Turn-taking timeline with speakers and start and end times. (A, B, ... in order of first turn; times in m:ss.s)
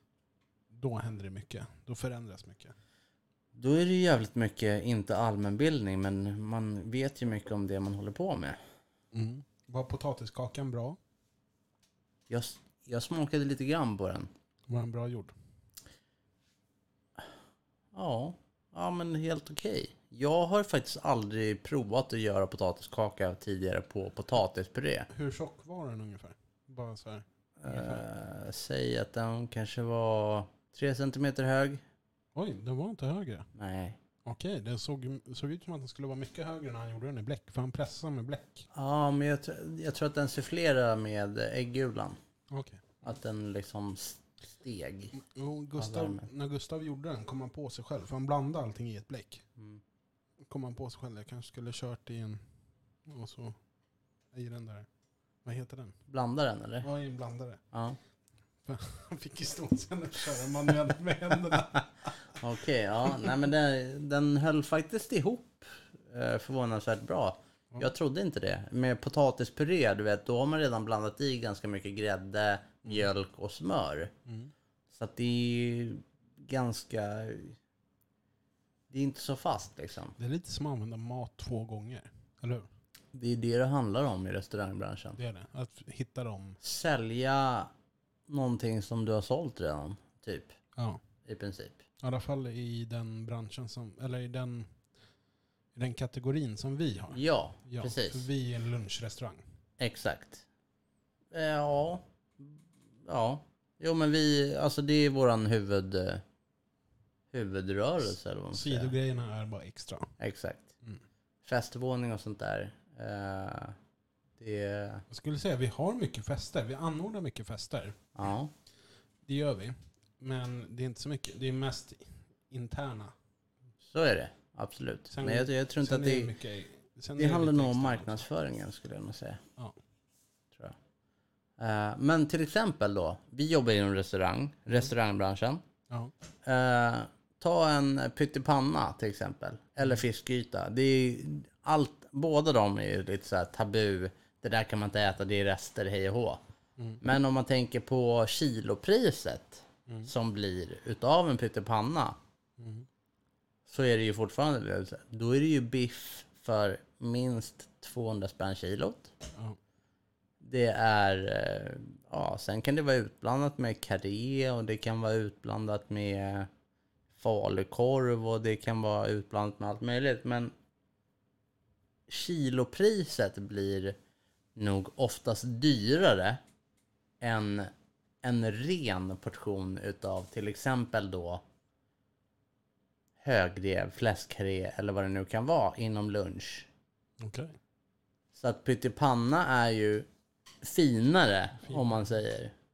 0:00.7-0:02.8 A
0:03.5-0:08.6 B
0:09.1-0:11.0 A
0:12.3-0:14.3 B
0:14.7-0:15.3 A
0:17.9-0:25.1 B
0:25.1-0:28.0 A
0:27.6-0:31.8 B
0:32.4-0:33.5 A
0:33.6-0:34.0 B
0:34.2-0:38.6 A
0:38.7-0:42.2 B
0:42.5-0:42.8 A
0:43.0-0:45.2 B
0:45.2-0:49.4 A
0:45.8-0:46.3 B
0:50.4-0:52.4 A
0:53.0-0:53.6 A
0:54.3-0:54.9 A
0:55.4-0:56.0 A
0:56.1-0:56.9 B
0:56.8-0:57.6 A
0:57.7-0:58.0 B
0:58.6-1:01.8 A
1:02.4-1:14.1 B
1:14.3-1:14.5 A
1:14.9-1:17.6 B
1:18.9-1:20.2 B
1:20.2-1:22.7 A
1:23.1-1:25.2 B
1:25.2-1:26.6 A
1:26.6-1:27.7 B
1:28.3-1:30.6 B
1:30.8-1:31.0 A
1:31.2-1:31.8 B
1:32.0-1:34.7 A
1:35.8-1:39.4 A
1:37.1-1:38.2 B
1:39.8-1:40.5 B
1:41.3-1:46.2 B
1:47.3-1:48.9 B
1:48.5-1:50.2 A
1:50.2-1:50.7 B
1:51.4-1:53.8 B
1:54.4-1:55.0 B
1:55.1-1:58.0 A
1:58.2-1:58.5 B
1:59.2-2:03.1 A
2:03.8-2:06.3 B
2:05.1-2:08.2 A
2:07.2-2:09.4 B
2:11.6-2:15.6 B
2:15.9-2:16.1 A
2:16.4-2:26.4 B
2:27.0-2:32.2 B
2:29.9-2:30.1 A
2:32.6-2:32.9 A
2:33.7-2:39.1 B
2:40.4-2:46.5 B
2:47.2-2:50.5 B
2:52.1-2:54.0 B
2:54.6-2:56.4 B
2:57.2-2:57.7 B
2:58.2-3:01.4 B
3:03.2-3:06.7 B
3:07.2-3:07.6 A
3:08.3-3:10.1 B
3:10.6-3:12.5 B
3:11.6-3:12.2 A